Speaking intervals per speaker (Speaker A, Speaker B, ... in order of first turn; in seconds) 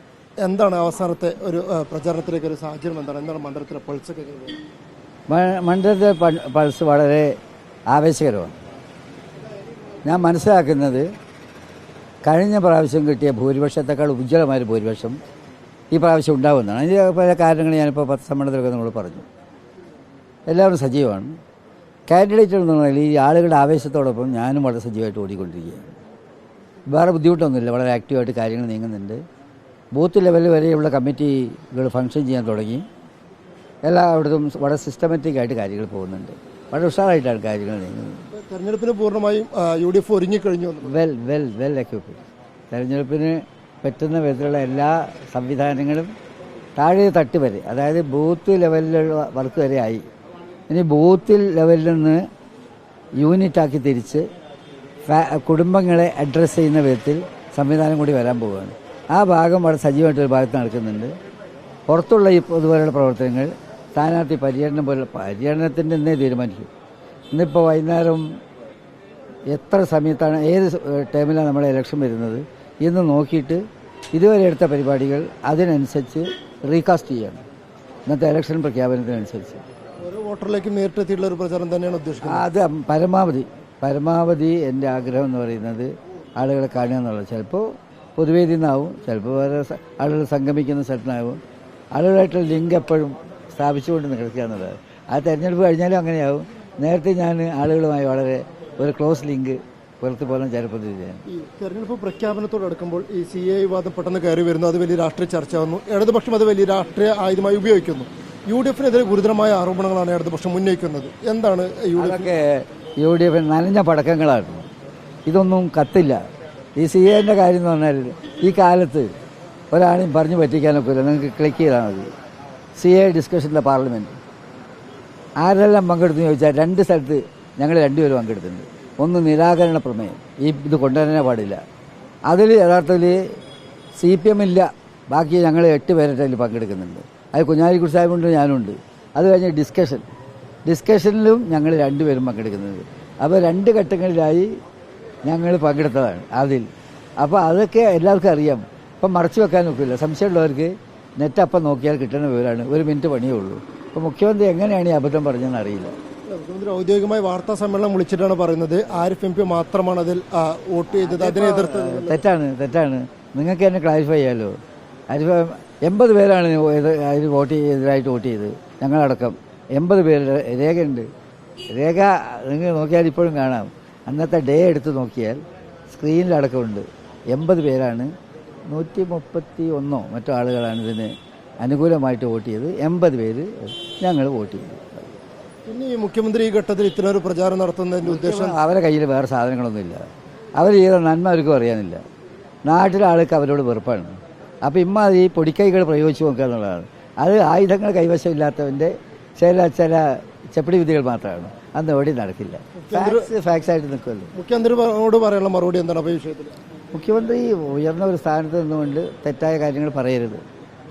Speaker A: 0.4-4.6, 38.3-41.0, 80.0-82.5, 101.3-112.3, 156.3-162.2, 185.7-188.6, 202.8-203.3, 204.3-206.6
Speaker B: 5.3-7.3, 7.9-8.6, 10.1-11.1, 12.3-15.2, 15.9-19.3, 20.5-21.3, 22.1-26.0, 26.9-29.2, 29.9-32.9, 33.9-38.2, 40.8-46.1, 46.8-50.0, 50.7-52.2, 53.2-54.3, 55.1-61.1, 61.9-66.7, 67.3-68.2, 69.5-73.6, 74.1-77.4, 78.1-79.6, 82.2-87.7, 88.2-91.4, 91.9-101.2, 112.0-114.7, 115.3-116.2, 116.8-119.1, 119.7-122.1, 122.8-124.2, 125.4-131.6, 132.3-133.2, 134.0-140.1, 140.7-144.5, 145.3-146.7, 147.2-155.9, 160.9-164.5, 165.1-171.1, 171.7-178.1, 178.7-185.1, 188.1-190.0, 190.6-192.0, 192.7-204.3, 206.9-210.4